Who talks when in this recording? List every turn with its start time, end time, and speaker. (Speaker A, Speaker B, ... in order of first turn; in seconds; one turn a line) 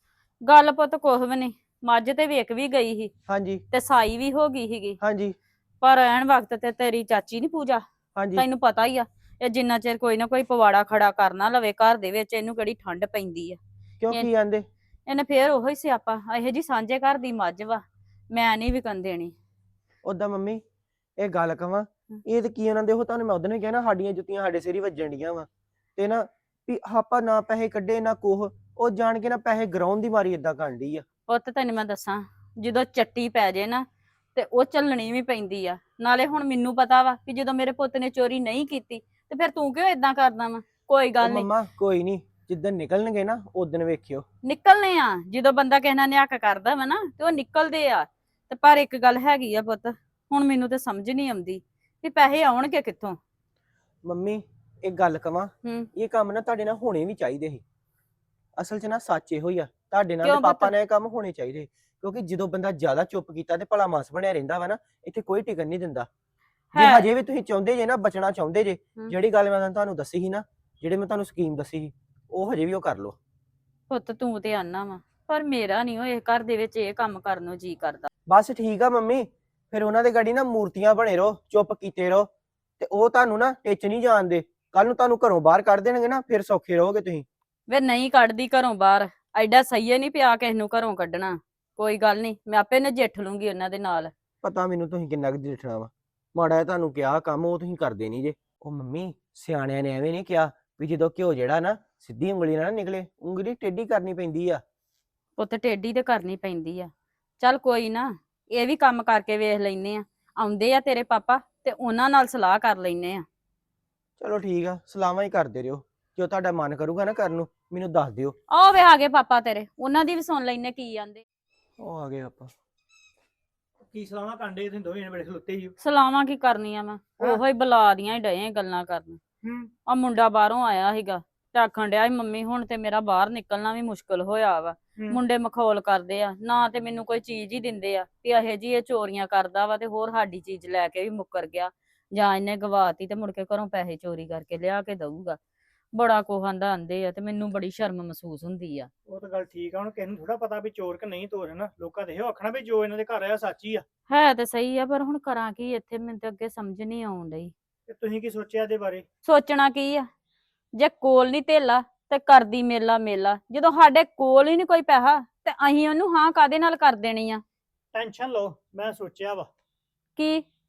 Speaker A: 0.4-3.1
Speaker B: 3.3-3.6
Speaker A: 3.7-5.0
Speaker B: 5.0-5.3
Speaker A: 5.8-7.8
Speaker B: 8.2-8.4
Speaker A: 8.3-13.6
Speaker B: 14.0-14.7
Speaker A: 15.1-19.3
Speaker B: 20.0-20.6
Speaker B: 21.2-31.0
Speaker A: 31.3-41.5
Speaker B: 41.2-44.2
Speaker A: 44.4-53.2
Speaker B: 54.0-57.6
Speaker B: 58.6-66.1
Speaker A: 60.2-60.7
Speaker A: 66.7-67.1
Speaker B: 66.7-73.2
Speaker A: 73.9-78.1
Speaker B: 78.3-82.3
Speaker B: 82.8-87.2
Speaker A: 87.7-94.1
Speaker B: 94.4-104.6
Speaker A: 105.4-113.2
Speaker B: 114.2-118.3
Speaker A: 118.5-121.2
Speaker B: 121.8-122.5
Speaker C: 123.9-125.7
Speaker A: 125.8-129.2
Speaker C: 129.4-129.7
Speaker A: 129.9-145.4
Speaker A: 145.9-148.9
Speaker C: 149.1-153.8
Speaker A: 154.1-157.5
Speaker C: 157.9-159.0
Speaker A: 159.2-160.1
Speaker A: 160.8-167.4
Speaker C: 167.9-169.5
Speaker A: 170.2-170.4